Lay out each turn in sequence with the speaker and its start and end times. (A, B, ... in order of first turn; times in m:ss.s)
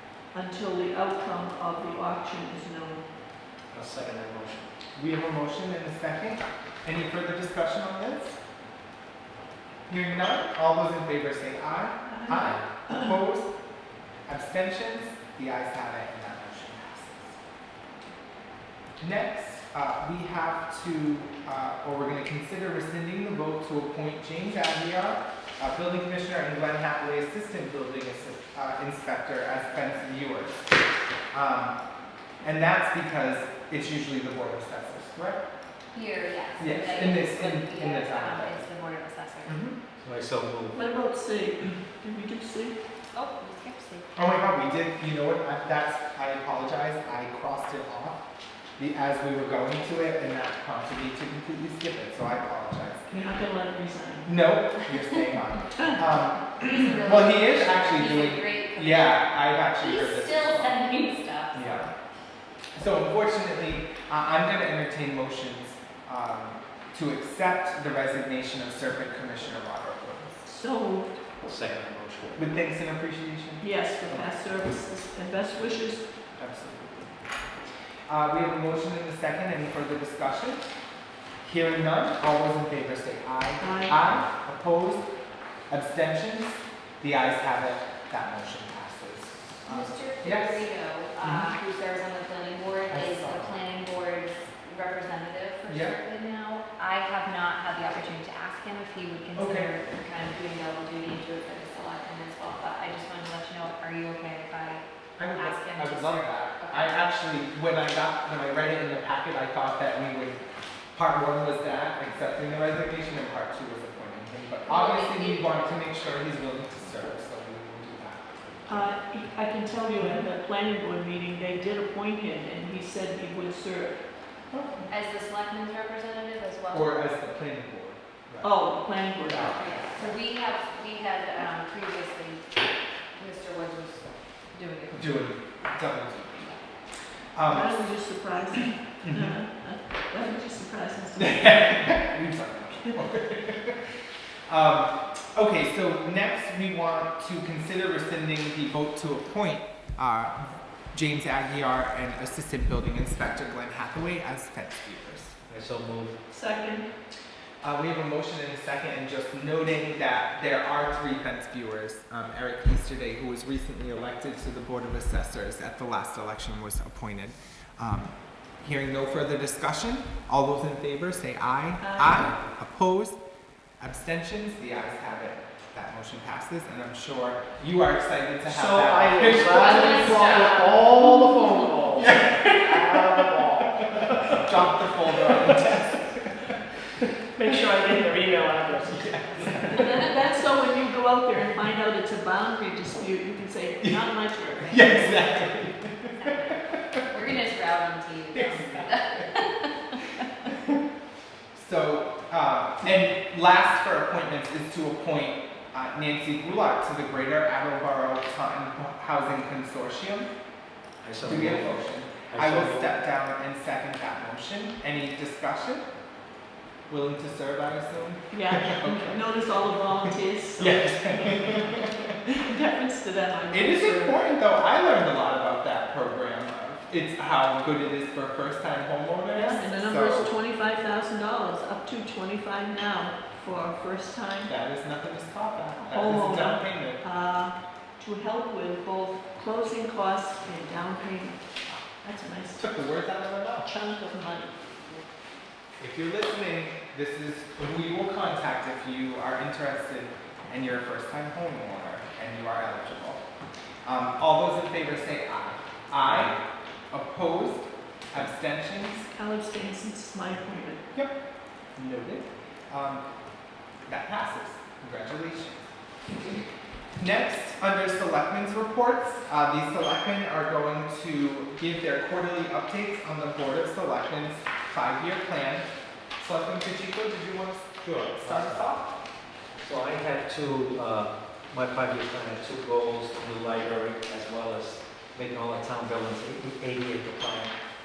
0:00.3-0:03.0 A
0:03.7-0:04.7 B
0:05.0-0:08.4 C
0:09.9-0:13.5 C
0:12.1-0:13.0 A
0:14.3-0:17.4 C
0:19.0-0:30.6 C
0:31.3-0:31.8 C
0:32.4-0:35.4 C
0:35.9-0:39.6 D
0:36.6-0:38.6 C
0:39.5-0:39.8 C
0:40.0-0:40.8 B
0:40.7-0:42.8 A
0:43.1-0:44.1 D
0:44.2-0:48.2 C
0:48.8-0:53.1 C
0:53.1-0:54.4 A
0:54.2-1:00.8 C
0:56.6-0:59.2 D
0:59.8-1:01.9 D
1:01.5-1:01.9 C
1:02.8-1:10.4 C
1:10.4-1:11.2 A
1:11.4-1:12.5 B
1:12.4-1:14.3 C
1:13.6-1:16.0 A
1:16.4-1:17.2 B
1:18.1-1:20.7 C
1:21.4-1:25.1 C
1:23.6-1:24.0 A
1:25.7-1:30.6 C
1:29.6-1:46.9 D
1:31.2-1:31.5 C
1:32.9-1:33.6 C
1:35.7-1:36.0 C
1:39.4-1:39.7 C
1:45.2-1:50.4 C
1:51.0-1:58.9 C
1:54.7-1:55.9 D
1:58.7-2:04.0 A
2:04.5-2:04.9 C
2:04.9-2:07.0 D
2:06.7-2:08.5 C
2:08.4-2:09.6 A
2:09.3-2:10.1 C
2:09.4-2:12.4 D
2:13.2-2:15.2 D
2:14.9-2:16.5 C
2:17.3-2:17.9 C
2:17.5-2:22.0 A
2:19.0-2:19.4 C
2:21.2-2:23.8 C
2:24.5-2:35.4 C
2:35.5-2:36.2 B
2:36.3-2:36.9 A
2:37.6-2:53.2 C
2:51.8-2:52.3 A
2:53.8-3:00.5 C
2:58.5-3:02.1 B
2:59.5-3:02.1 D
3:02.0-3:06.5 C
3:02.7-3:03.8 B
3:07.4-3:09.0 B
3:08.9-3:10.1 C
3:09.7-3:15.2 A
3:14.7-3:17.0 C
3:16.2-3:20.1 D
3:18.3-3:19.2 C
3:21.5-3:30.3 C
3:31.0-3:32.9 B
3:31.2-3:35.9 C
3:36.9-3:39.2 C
3:38.3-3:40.8 A
3:40.6-3:42.2 C
3:42.3-3:44.2 A
3:43.5-3:50.3 C
3:49.3-3:54.5 A
3:54.5-3:57.0 C
3:55.9-4:01.4 A
4:02.0-4:02.7 A
4:02.6-4:03.7 C
4:03.6-4:05.0 A
4:05.8-4:13.2 C
4:13.9-4:16.4 C
4:16.1-4:16.4 B
4:16.9-4:19.1 C
4:19.1-4:20.8 A
4:21.8-4:23.0 C
4:23.9-4:25.6 C
4:27.0-4:39.0 C
4:37.9-4:38.7 B
4:39.6-4:47.5 B